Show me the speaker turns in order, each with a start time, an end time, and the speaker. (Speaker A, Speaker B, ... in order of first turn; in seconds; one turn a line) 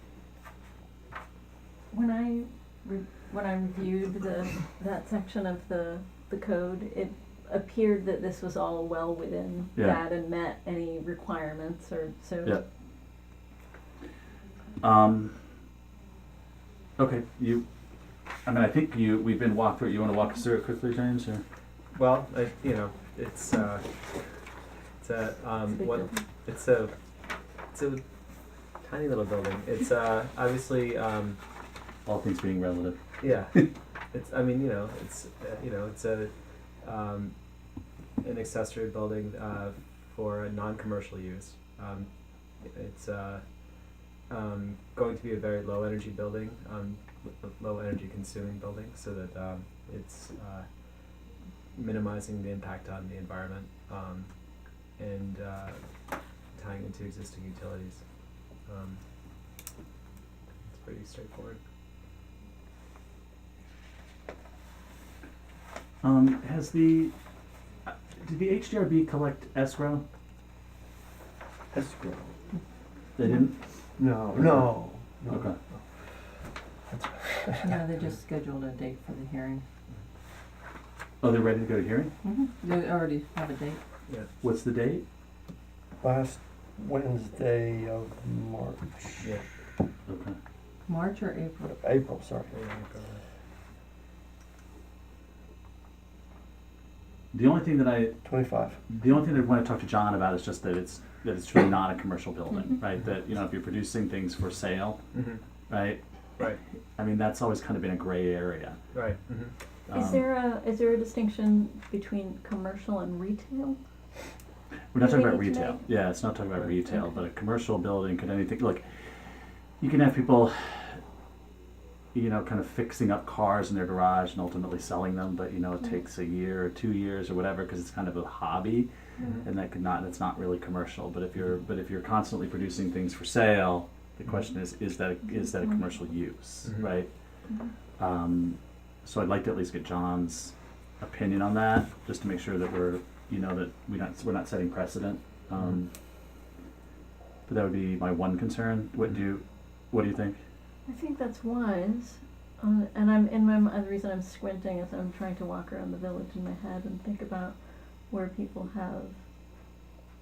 Speaker A: 1.9-12.6
Speaker B: 9.8-10.0
Speaker B: 14.8-15.3
Speaker B: 17.0-17.6
Speaker B: 18.5-21.4
Speaker C: 21.9-23.8
Speaker C: 25.0-26.9
Speaker A: 25.8-26.2
Speaker C: 27.7-28.0
Speaker C: 28.8-31.4
Speaker B: 32.1-33.0
Speaker C: 33.2-36.3
Speaker C: 36.8-37.3
Speaker C: 38.2-42.1
Speaker C: 42.6-43.4
Speaker C: 44.3-50.7
Speaker C: 51.7-54.3
Speaker C: 55.0-55.8
Speaker C: 56.5-58.0
Speaker C: 58.7-59.0
Speaker C: 60.7-61.6
Speaker B: 66.0-67.1
Speaker B: 67.9-70.0
Speaker D: 71.7-72.3
Speaker B: 73.2-73.6
Speaker D: 74.0-75.5
Speaker B: 75.3-75.6
Speaker D: 76.9-77.7
Speaker E: 77.6-79.6
Speaker B: 81.2-82.1
Speaker E: 82.2-83.8
Speaker B: 84.4-85.0
Speaker D: 86.0-89.3
Speaker B: 90.1-90.4
Speaker E: 90.9-91.8
Speaker D: 91.7-92.5
Speaker C: 92.5-93.2
Speaker B: 97.3-98.2
Speaker D: 98.2-98.8
Speaker B: 98.9-105.0
Speaker C: 105.1-105.4
Speaker B: 105.7-106.0
Speaker B: 107.0-108.8
Speaker C: 108.9-109.5
Speaker B: 109.9-110.3
Speaker A: 109.9-113.8
Speaker B: 114.9-118.8
Speaker A: 115.0-115.9
Speaker B: 119.8-121.0
Speaker B: 122.1-128.9
Speaker A: 129.2-129.4
Speaker B: 129.4-137.1
Speaker C: 136.7-136.9
Speaker B: 138.0-145.9
Speaker B: 147.5-150.4
Speaker A: 150.9-157.6
Speaker A: 158.1-159.2